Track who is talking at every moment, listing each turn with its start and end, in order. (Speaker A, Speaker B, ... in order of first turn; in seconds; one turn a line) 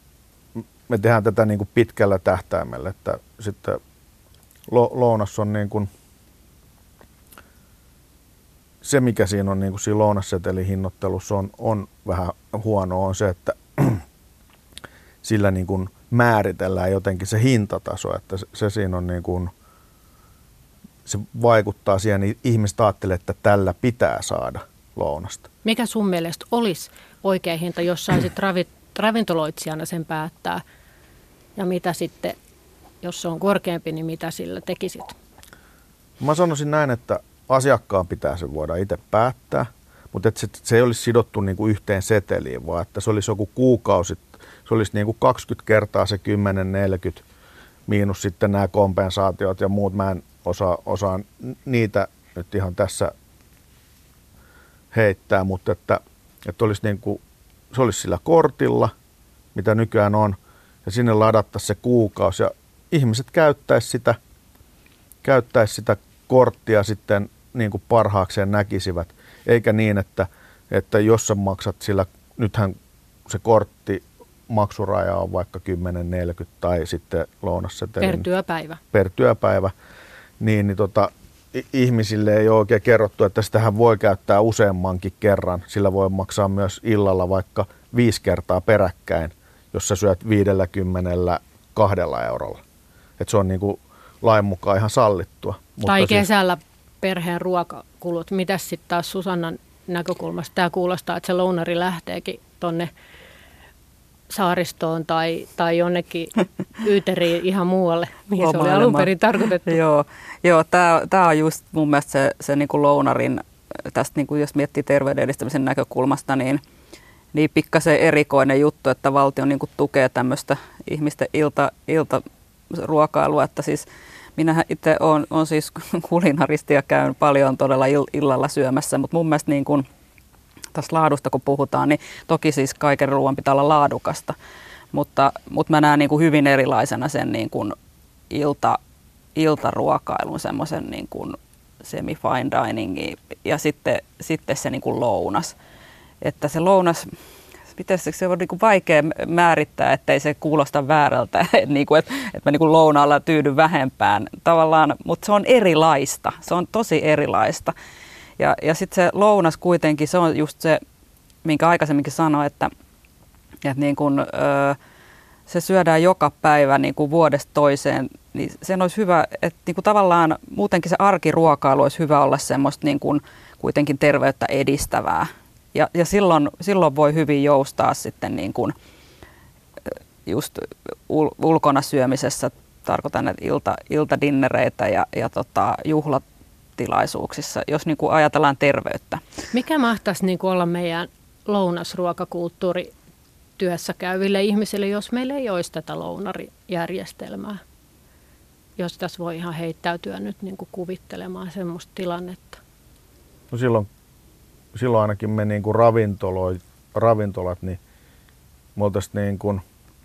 Speaker A: 0.6-3.8
Speaker A: 4.7-5.9
Speaker A: 8.8-14.0
Speaker A: 15.2-19.5
Speaker A: 21.1-25.5
Speaker B: 25.6-30.6
Speaker B: 31.6-32.4
Speaker B: 33.0-35.2
Speaker A: 36.2-47.2
Speaker A: 47.9-53.1
Speaker A: 54.9-57.2
Speaker A: 57.7-58.9
Speaker A: 59.5-64.2
Speaker A: 65.2-72.8
Speaker A: 73.3-78.3
Speaker B: 78.0-78.8
Speaker A: 78.9-79.7
Speaker A: 80.4-92.6
Speaker A: 93.2-96.3
Speaker B: 95.9-102.9
Speaker B: 104.3-109.8
Speaker C: 108.4-109.1
Speaker C: 109.7-116.6
Speaker C: 117.3-129.9
Speaker C: 130.7-134.3
Speaker C: 134.9-137.8
Speaker C: 138.3-138.8
Speaker C: 139.3-145.6
Speaker C: 146.2-147.1
Speaker C: 147.8-157.7
Speaker C: 158.4-160.8
Speaker C: 161.4-162.7
Speaker C: 163.6-164.8
Speaker C: 165.5-178.8
Speaker C: 179.9-186.2
Speaker C: 186.8-189.2
Speaker B: 189.5-192.9
Speaker B: 193.6-197.6
Speaker B: 198.8-202.6
Speaker A: 203.5-203.9
Speaker A: 204.8-207.8
Speaker A: 208.8-209.6